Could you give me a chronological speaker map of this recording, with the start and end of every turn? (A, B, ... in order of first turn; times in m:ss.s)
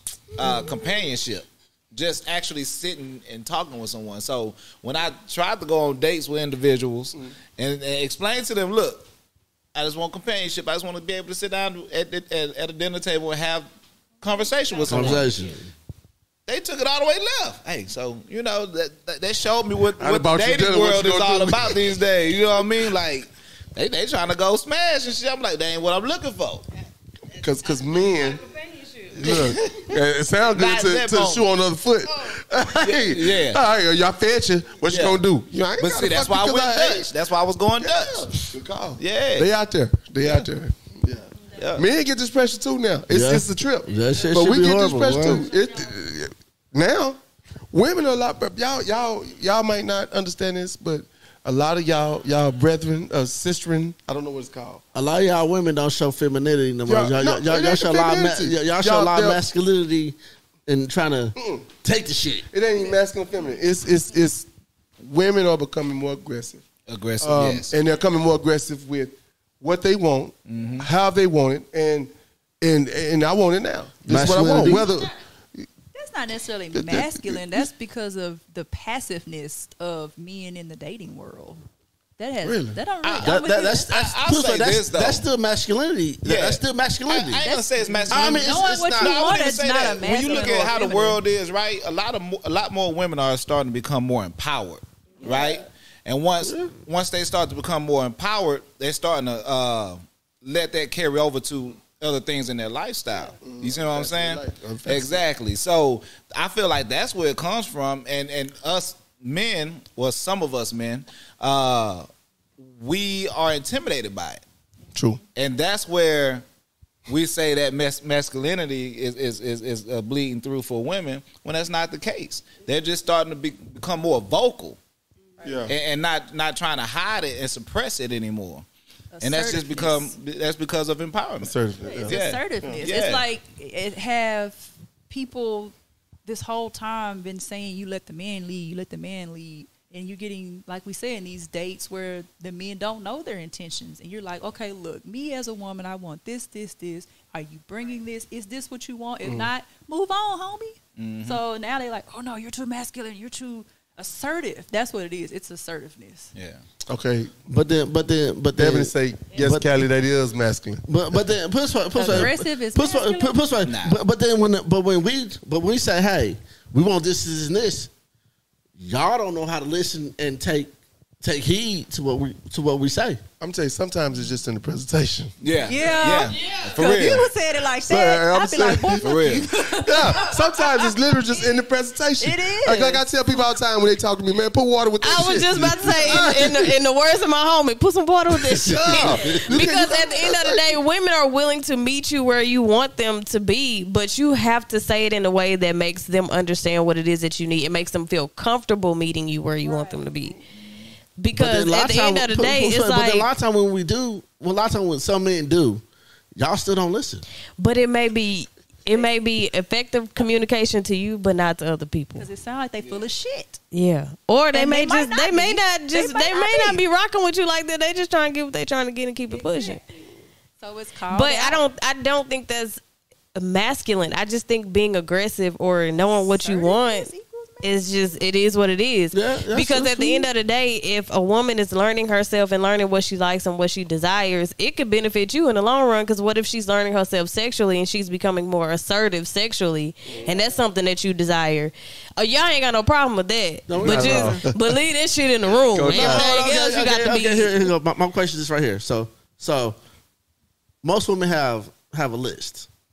0:00.4-0:09.1 A
0:09.8-0:13.7 A
0:14.2-0:15.3 A
0:14.9-0:15.7 B
0:16.5-0:26.6 A
0:20.0-0:21.8 C
0:27.3-0:28.4 C
0:28.4-0:29.1 D
0:29.1-0:37.1 C
0:29.3-0:29.5 A
0:30.5-0:31.4 A
0:32.8-0:33.6 A
0:34.9-0:35.2 A
0:35.8-0:38.4 A
0:37.8-0:47.2 C
0:39.0-0:39.5 A
0:40.2-0:40.5 A
0:41.6-0:41.9 A
0:43.1-0:45.5 B
0:47.7-0:54.8 C
0:54.9-1:00.2 B
0:56.9-0:59.4 C
1:00.7-1:02.5 B
1:01.4-1:01.7 C
1:02.5-1:04.5 C
1:05.0-1:06.6 C
1:06.9-1:07.7 A
1:07.2-1:15.7 C
1:10.5-1:10.9 A
1:14.1-1:14.9 B
1:15.9-1:21.6 E
1:16.7-1:17.6 C
1:22.2-1:24.0 E
1:22.5-1:22.8 C
1:23.0-1:25.3 A
1:23.2-1:27.4 B
1:26.2-1:52.1 A
1:27.4-1:31.2 E
1:28.1-1:29.2 B
1:36.4-1:36.7 B
1:43.4-1:45.2 C
1:52.6-1:54.4 A
1:55.0-1:55.2 C
1:55.4-1:56.4 A
1:57.1-2:04.8 A
2:05.4-2:05.7 C
2:05.7-2:08.7 A
2:09.1-2:10.1 E
2:09.2-2:13.2 A
2:11.4-2:12.8 C
2:11.8-2:15.7 E
2:16.3-2:36.3 E
2:29.2-2:29.5 C
2:31.0-2:31.4 A
2:36.4-2:36.6 A
2:36.9-2:37.4 C
2:37.5-2:39.7 B
2:38.6-2:41.2 C
2:40.9-2:47.9 B
2:42.0-2:43.4 E
2:43.6-2:44.0 A
2:48.8-2:53.2 B
2:53.4-2:55.3 C
2:55.4-2:57.3 A
2:55.6-3:00.9 E
2:57.8-3:06.8 C
2:59.0-2:59.5 A
3:02.2-3:03.1 E
3:05.0-3:20.4 D
3:08.5-3:09.4 B
3:08.7-3:10.8 C
3:19.6-3:20.0 E
3:21.2-3:23.3 D
3:21.4-3:25.8 B
3:26.4-3:27.3 B
3:27.6-3:32.3 D
3:32.2-3:33.6 E
3:33.7-3:39.8 D
3:34.5-3:36.8 E
3:39.3-3:40.0 E
3:40.6-3:41.6 E
3:41.1-3:42.8 D
3:43.4-3:47.1 D
3:46.0-3:48.1 E
3:47.6-4:07.7 D
3:49.1-3:50.3 B
4:03.7-4:04.5 B
4:03.8-4:04.8 C
4:05.7-4:06.2 C
4:05.7-4:09.8 B
4:10.8-4:12.7 B